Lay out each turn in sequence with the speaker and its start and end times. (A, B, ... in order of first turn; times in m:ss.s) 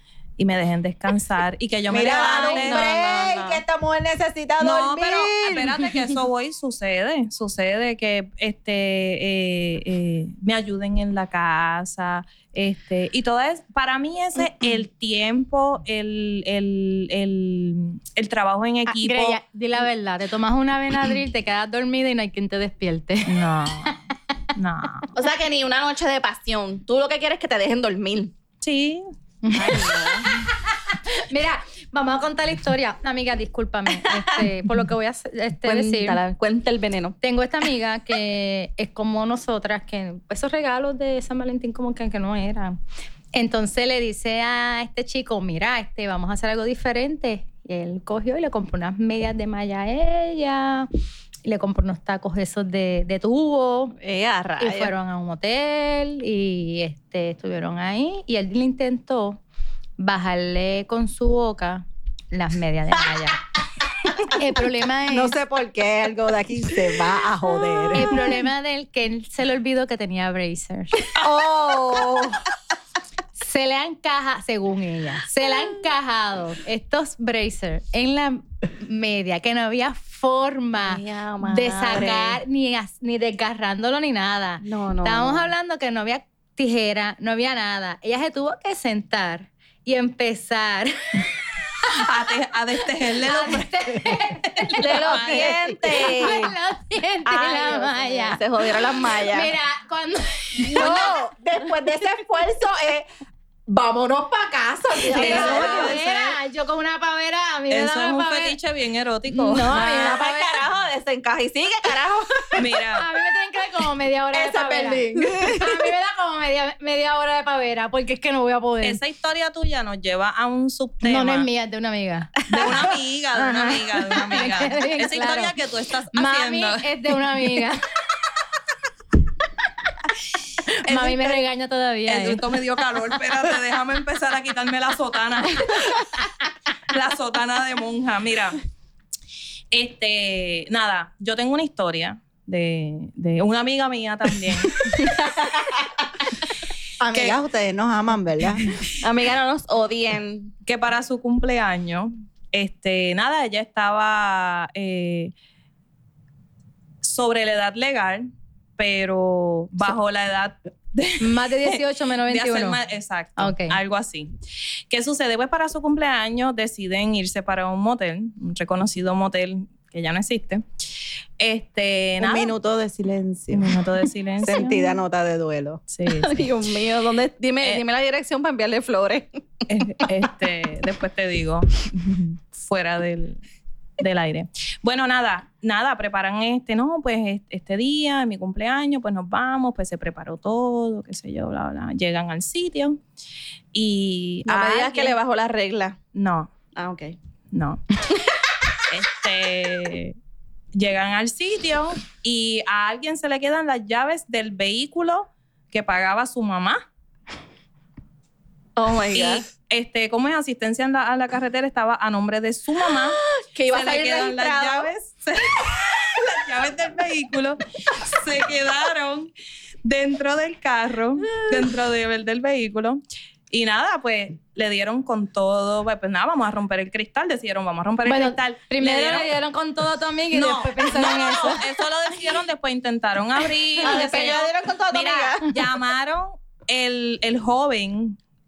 0:00.4-0:02.9 A
0:01.9-0:05.8 B
0:01.9-0:03.6 C
0:04.6-0:19.4 A
0:18.9-0:23.9 D
0:23.3-0:24.0 A
0:24.6-0:25.1 A
0:25.1-0:28.3 C
0:28.6-0:29.1 A
0:29.4-0:36.2 D
0:29.5-0:30.3 C
0:34.1-0:34.5 C
0:35.6-0:37.2 C
0:37.2-0:42.8 D
0:43.3-0:50.9 D
0:51.4-0:53.9 D
0:54.0-0:54.9 C
0:54.6-0:59.4 D
1:00.0-1:03.4 D
1:04.2-1:05.4 D
1:05.1-1:08.1 B
1:07.9-1:11.0 D
1:11.2-1:12.4 B
1:13.4-1:31.3 D
1:20.8-1:22.4 C
1:24.6-1:25.5 C
1:31.9-1:35.6 A
1:33.2-1:38.4 D
1:34.8-1:36.5 C
1:35.5-1:35.9 B
1:37.2-1:39.5 C
1:39.2-1:41.1 D
1:40.6-1:43.1 B
1:40.8-1:41.1 C
1:43.7-1:45.9 B
1:45.1-1:45.9 C
1:45.1-1:46.4 A
1:45.2-1:48.6 D
1:47.7-1:50.3 A
1:49.3-1:52.6 C
1:52.5-1:53.0 A
1:53.0-1:59.0 D
1:54.3-1:55.8 B
1:58.8-2:01.5 A
2:01.0-2:02.4 D
2:02.5-2:06.9 A
2:02.5-2:02.8 C
2:03.4-2:05.5 D
2:06.1-2:07.8 D
2:10.8-2:12.4 D
2:10.9-2:11.4 A
2:12.1-2:16.0 A
2:16.9-2:18.6 A
2:19.7-2:24.9 A
2:25.0-2:25.4 C
2:27.0-2:28.8 B
2:29.0-2:30.5 C
2:30.6-2:35.3 A
2:37.0-2:38.2 A
2:38.8-2:44.3 A
2:41.2-2:42.8 D
2:43.4-2:43.8 D
2:44.9-2:50.6 A
2:51.4-2:52.5 A
2:52.2-2:53.8 B
2:53.5-2:55.0 A
2:54.4-2:55.8 B
2:55.9-2:56.5 A
2:56.1-3:00.1 C
2:59.7-3:03.4 A
3:04.0-3:13.0 A
3:13.7-3:15.2 A
3:14.5-3:16.0 C
3:16.1-3:16.5 A
3:16.7-3:17.2 C
3:17.5-3:17.8 A
3:18.9-3:20.1 A
3:20.7-3:26.8 A
3:28.8-3:29.4 C
3:29.1-3:39.3 A
3:33.5-3:34.9 C
3:39.8-3:49.3 A
3:48.0-3:51.6 D
3:50.3-3:58.2 A
3:53.8-3:54.3 D
3:53.8-3:55.5 C